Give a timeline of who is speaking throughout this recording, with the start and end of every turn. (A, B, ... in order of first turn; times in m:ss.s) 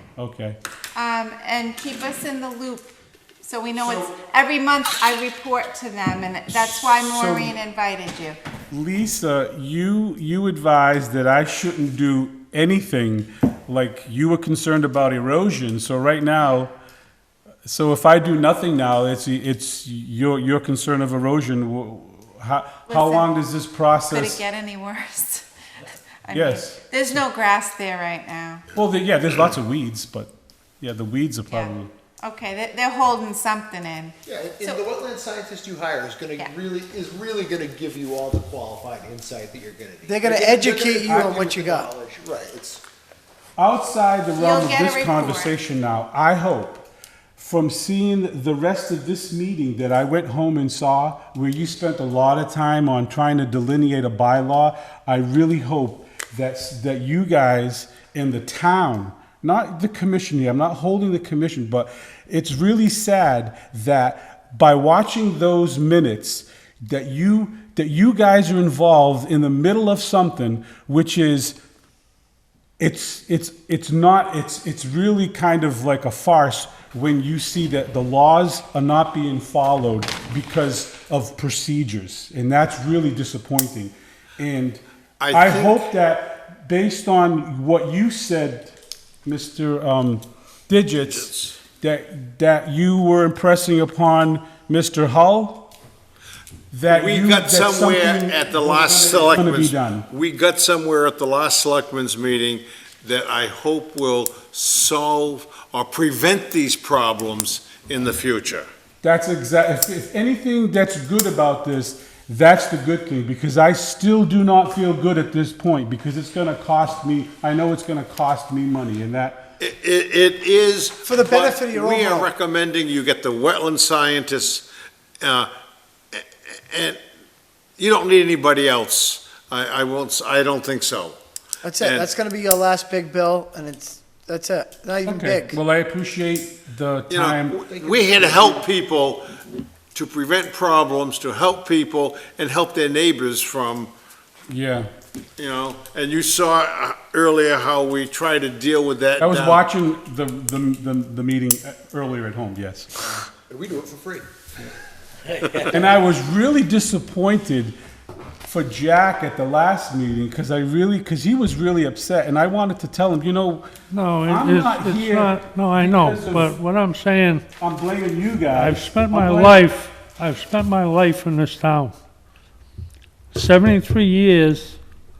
0:00.2-0:00.6 A
0:00.9-0:02.9 B
0:03.4-0:08.4 B
0:07.1-0:07.5 A
0:08.7-0:16.7 A
0:17.6-0:24.4 A
0:22.9-0:23.3 B
0:24.1-0:25.4 B
0:26.2-0:28.6 B
0:26.3-0:26.8 A
0:28.7-0:31.9 A
0:31.5-0:34.8 B
0:34.2-0:42.8 C
0:40.0-0:41.9 D
0:43.6-0:46.8 A
0:44.4-0:45.5 B
0:47.4-1:11.6 A
1:12.8-1:35.7 A
1:25.2-1:25.9 E
1:31.1-1:31.5 E
1:36.7-1:40.1 A
1:36.9-1:48.7 E
1:49.0-1:59.5 A
1:59.6-2:04.6 E
2:01.0-2:02.3 D
2:05.2-2:05.5 E
2:06.1-2:07.0 E
2:07.8-2:11.2 E
2:11.6-2:15.6 D
2:11.8-2:12.1 E
2:15.0-2:17.6 A
2:17.1-2:19.2 E
2:17.7-2:18.6 C
2:19.9-2:23.9 E
2:24.5-2:24.9 A
2:25.4-2:29.7 E
2:29.2-2:33.1 A
2:33.5-2:34.3 C
2:35.6-2:37.8 A
2:38.4-2:43.7 A
2:43.9-2:47.4 F
2:44.2-2:46.5 A
2:47.6-2:49.6 A
2:48.5-2:51.9 F
2:53.3-2:54.8 F